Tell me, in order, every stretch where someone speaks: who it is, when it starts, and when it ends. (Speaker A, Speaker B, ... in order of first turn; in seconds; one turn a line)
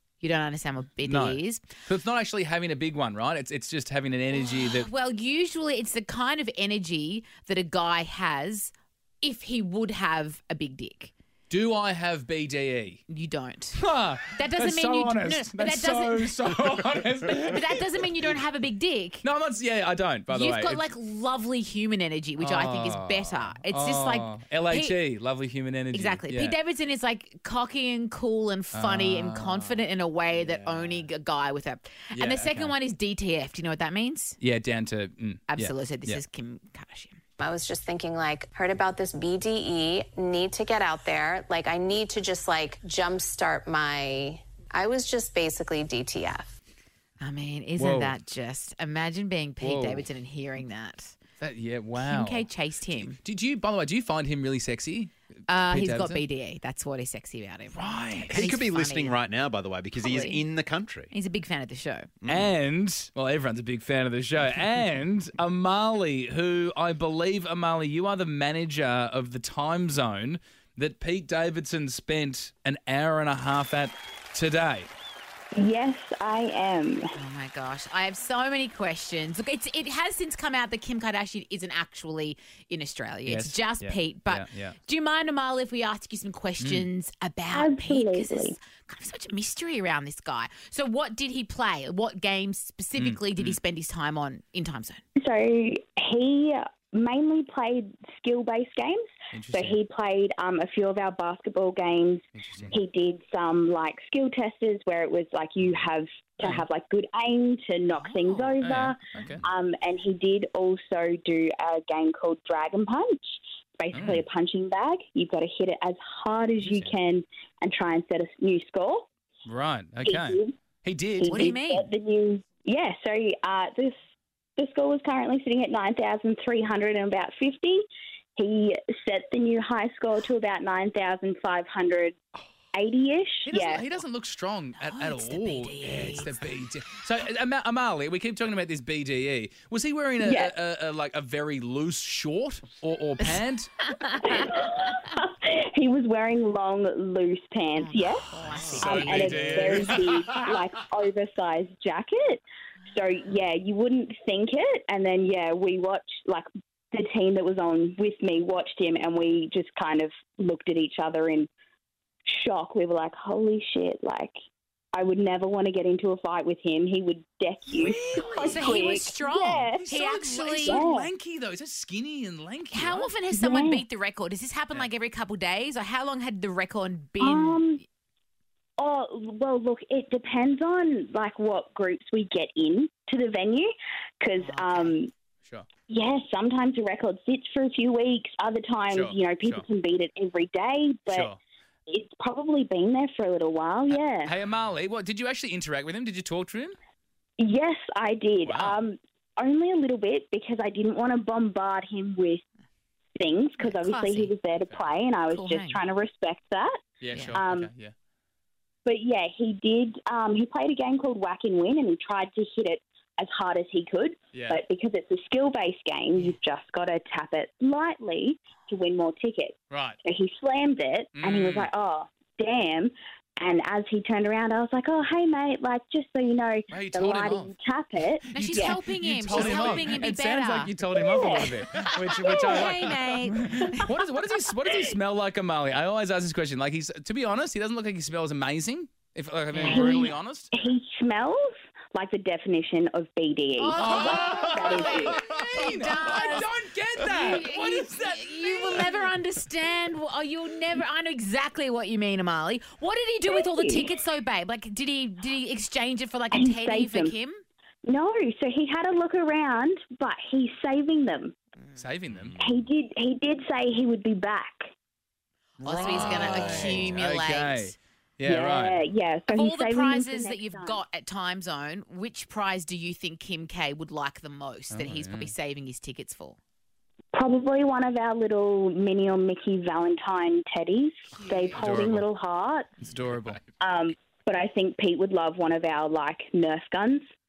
Speaker A: 0.2-1.7
Speaker B: 1.0-4.9
Speaker A: 4.4-11.1
Speaker B: 11.5-13.0
Speaker A: 13.1-13.8
Speaker B: 13.7-18.0
Speaker A: 14.3-16.7
Speaker A: 17.2-19.2
Speaker B: 19.2-20.9
Speaker A: 20.3-25.0
Speaker B: 22.4-26.6
Speaker A: 25.9-34.4
Speaker B: 28.7-31.1
Speaker B: 32.1-32.7
Speaker B: 34.4-36.2
Speaker A: 35.5-37.2
Speaker C: 37.4-46.5
Speaker A: 47.2-51.1
Speaker B: 47.8-48.2
Speaker B: 49.6-50.1
Speaker B: 51.4-56.2
Speaker A: 52.0-53.2
Speaker A: 55.5-59.2
Speaker B: 57.7-58.5
Speaker D: 58.3-61.1
Speaker A: 60.0-60.4
Speaker A: 61.1-62.1
Speaker D: 62.2-62.5
Speaker B: 62.3-74.9
Speaker E: 75.5-77.1
Speaker A: 77.1-95.0
Speaker B: 83.2-84.8
Speaker B: 86.6-86.9
Speaker E: 87.5-88.5
Speaker B: 93.0-93.6
Speaker E: 95.2-119.1
Speaker B: 99.3-99.8
Speaker B: 102.3-102.8
Speaker B: 106.4-106.7
Speaker A: 107.9-108.6
Speaker B: 108.6-109.5
Speaker B: 113.9-114.2
Speaker B: 116.6-117.0
Speaker B: 119.5-121.5
Speaker E: 120.0-120.5
Speaker E: 121.2-124.0
Speaker A: 121.3-121.9
Speaker E: 124.6-127.8
Speaker E: 128.4-132.2
Speaker E: 132.7-133.8
Speaker B: 133.4-143.7
Speaker A: 134.8-136.5
Speaker E: 140.2-140.5
Speaker A: 143.2-144.6
Speaker E: 144.2-161.5
Speaker A: 147.8-150.0
Speaker B: 148.5-150.7
Speaker E: 162.2-164.3
Speaker E: 164.9-169.9
Speaker B: 167.7-168.8
Speaker A: 168.4-170.8
Speaker B: 169.8-173.1
Speaker E: 170.6-171.1
Speaker A: 172.7-177.8
Speaker E: 173.3-173.8
Speaker E: 177.2-177.8
Speaker E: 178.8-185.1
Speaker A: 184.4-185.0
Speaker E: 185.9-191.3
Speaker B: 188.9-189.6
Speaker B: 191.1-191.4
Speaker E: 191.9-194.3
Speaker B: 193.9-196.8
Speaker E: 197.4-202.4
Speaker B: 198.4-198.8
Speaker E: 203.2-206.8
Speaker A: 203.6-204.3
Speaker A: 205.3-205.8
Speaker B: 207.0-207.9
Speaker A: 207.1-207.4
Speaker E: 207.3-207.7
Speaker E: 208.8-228.8
Speaker B: 214.3-214.6
Speaker B: 219.7-220.0
Speaker B: 221.2-221.7
Speaker B: 226.7-227.5
Speaker B: 228.2-240.7
Speaker A: 228.3-230.7
Speaker E: 229.4-229.6
Speaker E: 230.9-231.5
Speaker A: 232.2-233.9
Speaker A: 239.5-240.1
Speaker E: 239.7-241.4
Speaker E: 241.9-245.2
Speaker A: 243.6-257.4
Speaker B: 243.7-249.2
Speaker E: 253.3-253.9
Speaker E: 256.3-257.1
Speaker E: 257.8-261.3
Speaker A: 261.6-261.9
Speaker B: 261.8-262.4
Speaker D: 262.1-262.7
Speaker E: 262.4-264.7
Speaker B: 265.6-268.8
Speaker A: 265.6-267.8
Speaker D: 265.8-267.1
Speaker E: 268.2-270.8
Speaker A: 269.3-276.4
Speaker B: 274.7-275.3
Speaker E: 277.1-282.7
Speaker A: 281.1-281.8
Speaker B: 281.5-282.0
Speaker B: 282.8-283.4
Speaker E: 283.6-287.1